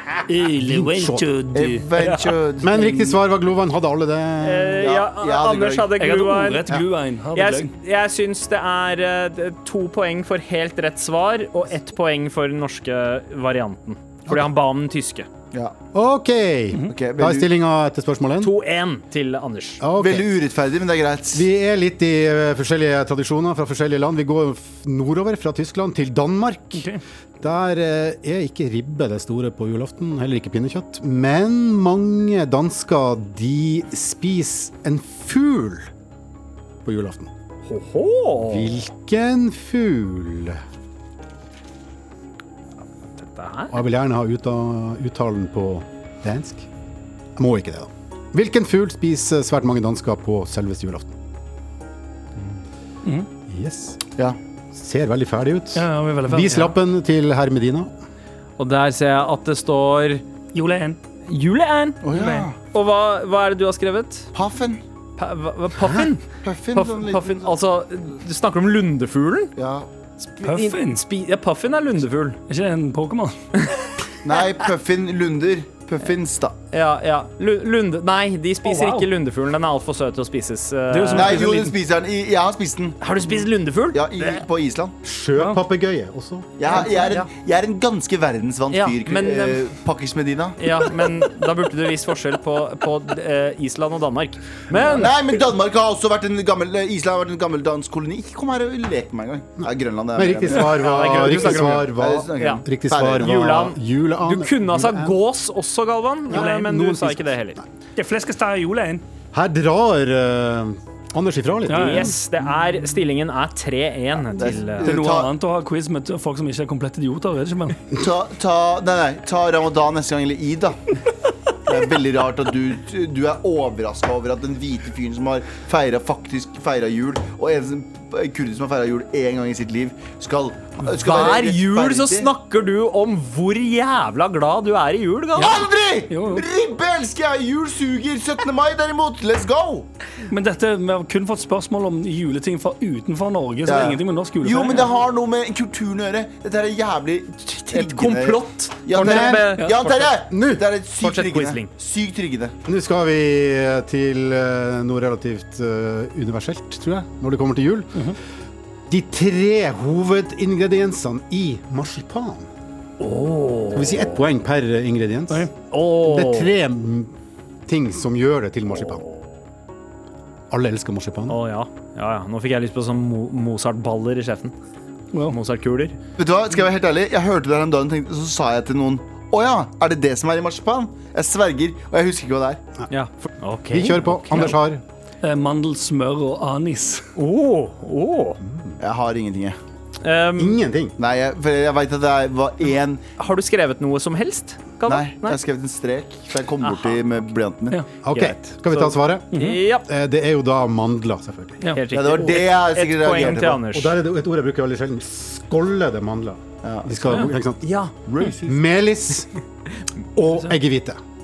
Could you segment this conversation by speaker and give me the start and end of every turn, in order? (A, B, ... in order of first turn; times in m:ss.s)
0:00.3-0:01.9 A
0:00.6-0:01.3 B
0:01.5-0:02.8 C
0:02.0-0:02.3 D
0:02.6-0:04.9 B
0:02.8-0:03.1 A
0:04.4-0:06.8 D
0:04.8-0:05.9 C
0:06.0-0:07.7 A
0:07.3-0:15.3 D
0:15.9-0:18.5 B
0:16.9-0:17.5 C
0:18.4-0:19.8 D
0:19.8-0:20.3 B
0:20.0-0:21.5 C
0:21.3-0:26.9 B
0:26.7-0:27.0 A
0:27.4-0:35.9 B
0:36.8-0:37.3 B
0:37.7-0:38.8 D
0:38.5-0:40.6 B
0:43.2-0:43.8 D
0:43.7-0:46.7 B
0:47.4-0:51.2 B
0:53.5-0:54.0 B
0:54.7-0:57.9 B
0:55.8-0:56.6 A
0:58.6-1:00.2 D
1:00.5-1:01.0 A
1:01.3-1:02.0 D
1:02.0-1:02.6 C
1:02.1-1:02.4 A
1:02.7-1:04.3 D
1:04.3-1:04.8 C
1:05.2-1:09.5 D
1:06.4-1:07.5 C
1:09.6-1:09.9 C
1:10.3-1:12.4 D
1:10.4-1:11.0 A
1:12.5-1:13.4 A
1:13.6-1:14.4 D
1:14.2-1:16.6 C
1:16.7-1:21.4 D
1:18.6-1:19.1 A
1:20.9-1:21.7 A
1:21.1-1:23.0 C
1:23.0-1:24.4 D
1:23.9-1:25.0 C
1:25.0-1:26.6 B
1:26.6-1:30.6 C
1:26.7-1:27.3 D
1:28.7-1:29.6 D
1:30.6-1:35.2 D
1:34.8-1:43.6 C
1:40.2-1:45.2 B
1:40.7-1:42.6 D
1:43.2-1:47.6 D
1:46.3-1:47.6 B
1:48.0-1:49.0 A
1:49.3-1:52.2 B
1:51.7-1:52.1 A
1:51.7-1:54.9 D
1:54.3-1:55.3 C
1:54.8-1:57.8 A
1:58.0-2:01.0 C
2:01.7-2:12.3 C
2:11.0-2:15.6 D
2:15.4-2:19.9 C
2:16.1-2:16.5 A
2:20.3-2:24.9 A
2:23.6-2:32.6 C
2:27.7-2:30.1 D
2:29.0-2:29.5 B
2:30.2-2:30.6 B
2:31.0-2:31.7 D
2:32.7-2:38.0 B
2:38.9-2:42.5 B
2:43.0-2:44.2 D
2:43.7-2:45.5 B
2:45.7-2:46.5 D
2:46.0-2:47.2 B
2:47.7-2:49.0 B
2:48.9-2:49.2 D
2:50.5-2:51.4 B
2:51.3-2:54.5 D
2:55.3-2:56.0 D
2:56.2-3:02.6 C
3:02.9-3:04.6 D
3:03.7-3:04.8 B
3:05.2-3:07.1 A
3:07.2-3:08.4 D
3:08.4-3:08.8 B
3:08.8-3:09.6 C
3:10.0-3:10.6 D
3:10.4-3:11.0 B
3:11.0-3:13.0 C
3:13.2-3:15.4 D
3:14.8-3:17.8 C
3:16.6-3:17.2 D
3:18.0-3:21.6 B
3:18.1-3:19.9 D
3:19.3-3:19.6 A
3:21.8-3:24.0 D
3:21.9-3:23.6 C
3:23.7-3:27.7 B
3:26.6-3:27.2 C
3:27.1-3:27.9 D
3:28.0-3:28.6 C
3:28.4-3:29.3 B
3:30.2-3:31.0 B